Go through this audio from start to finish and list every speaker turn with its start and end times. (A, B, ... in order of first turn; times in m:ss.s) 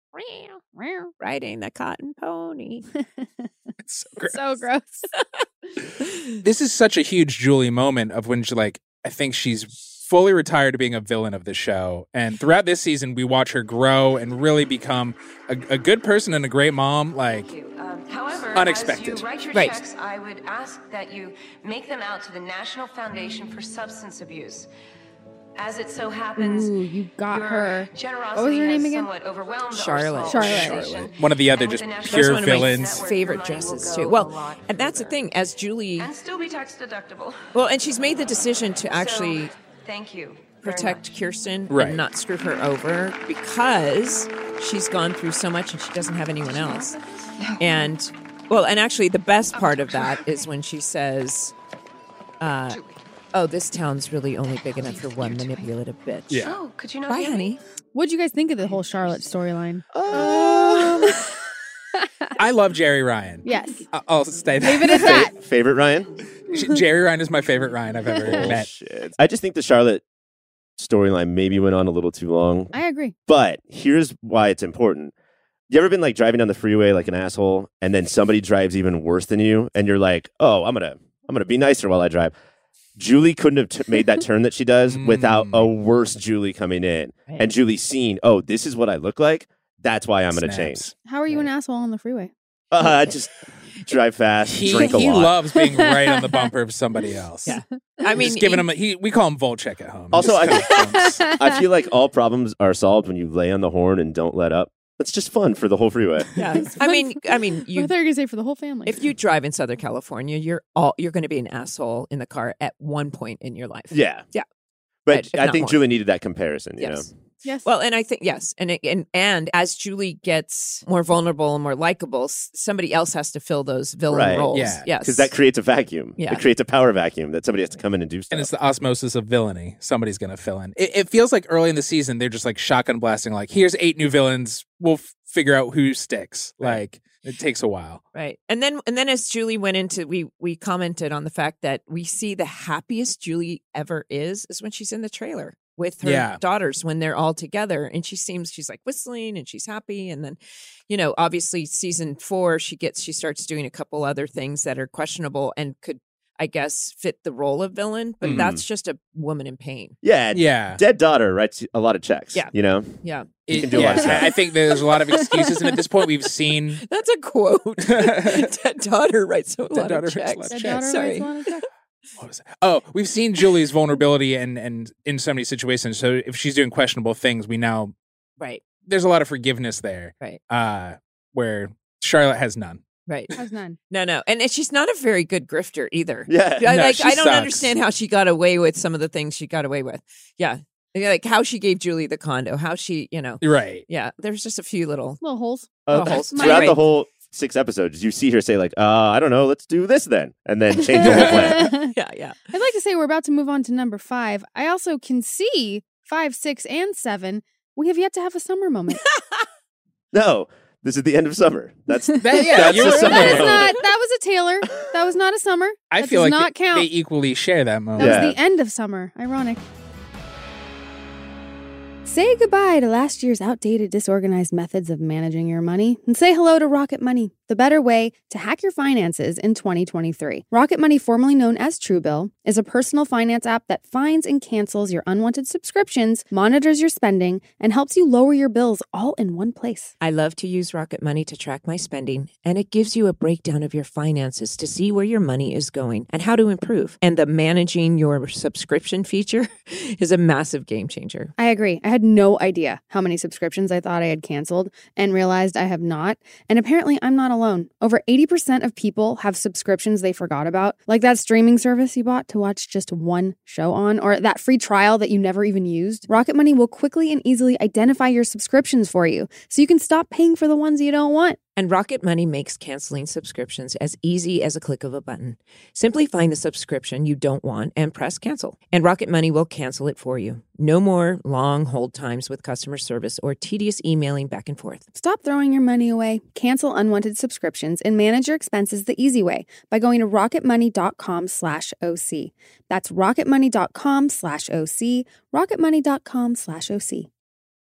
0:00.1-0:00.6 A
0:00.7-0:01.1 B
0:01.2-0:02.8 A
0:03.0-0:03.5 B
0:03.8-0:04.6 C
0:04.3-0:05.1 B
0:06.4-0:17.5 C
0:17.4-0:24.7 D
0:18.5-0:19.3 C
0:19.5-0:19.8 A
0:25.6-0:26.7 D
0:26.4-0:29.1 B
0:27.3-0:35.2 D
0:29.7-0:31.0 A
0:30.2-0:30.8 B
0:30.5-0:33.0 C
0:32.0-0:36.1 A
0:36.0-0:37.5 D
0:37.5-0:39.5 A
0:38.8-0:41.2 D
0:40.6-0:47.0 A
0:41.7-0:42.0 C
0:47.6-0:51.5 A
0:49.5-0:50.2 D
0:52.4-0:52.8 A
0:52.7-0:52.9 D
0:53.3-0:56.5 A
0:54.8-0:55.6 D
0:56.3-0:56.6 C
0:56.3-0:57.6 D
0:57.1-0:57.6 A
0:57.9-1:01.2 B
0:59.9-1:01.0 E
1:02.0-1:02.3 B
1:02.4-1:05.3 C
1:03.4-1:03.9 B
1:04.6-1:05.3 B
1:04.9-1:06.1 E
1:06.5-1:08.7 C
1:08.1-1:08.4 B
1:08.2-1:10.0 E
1:10.8-1:12.7 E
1:12.7-1:13.1 B
1:13.3-1:15.1 E
1:15.7-1:22.3 E
1:23.0-1:30.9 E
1:24.9-1:25.7 C
1:30.3-1:30.9 C
1:31.0-1:32.3 B
1:32.7-1:35.4 E
1:34.5-1:37.6 C
1:35.6-1:36.4 B
1:37.5-1:38.7 A
1:38.1-1:41.3 C
1:40.1-1:46.4 E
1:40.9-1:41.4 B
1:46.4-1:47.9 A
1:46.7-1:49.0 B
1:48.8-1:54.4 A
1:53.9-1:54.2 E
1:55.0-1:57.1 E
1:55.1-1:55.8 A
1:56.8-1:57.1 A
1:57.6-2:05.3 A
2:04.1-2:08.5 E
2:04.5-2:04.9 C
2:06.2-2:06.4 A
2:08.3-2:18.0 C
2:18.1-2:30.4 A
2:26.0-2:26.4 C
2:30.9-2:40.0 A
2:38.2-2:38.5 C
2:38.2-2:38.6 E
2:40.0-2:44.3 E
2:40.3-2:40.8 C
2:42.3-2:44.2 A
2:43.5-2:46.8 C
2:45.1-2:45.5 A
2:46.8-2:51.5 A
2:47.8-2:48.5 C
2:49.7-2:50.9 C
2:50.5-2:51.7 B
2:52.2-2:57.9 C
2:58.8-3:02.8 C
3:03.1-3:03.3 A
3:03.3-3:03.8 B
3:03.9-3:15.2 A
3:06.3-3:06.7 E
3:06.7-3:07.7 C
3:13.4-3:13.8 C
3:15.2-3:16.8 B
3:15.8-3:21.7 E
3:15.9-3:16.8 A
3:20.8-3:21.9 B
3:21.0-3:21.5 C
3:21.1-3:22.4 A
3:22.5-3:29.0 B
3:29.2-3:29.4 A
3:30.1-3:33.7 E
3:32.1-3:36.9 B
3:32.2-3:33.6 C
3:35.9-3:38.3 C
3:38.0-3:38.4 E
3:38.0-3:39.6 B
3:42.0-3:59.9 B
4:00.0-4:11.3 A
4:11.4-4:31.4 B
4:31.6-4:44.8 A
4:44.9-4:57.1 B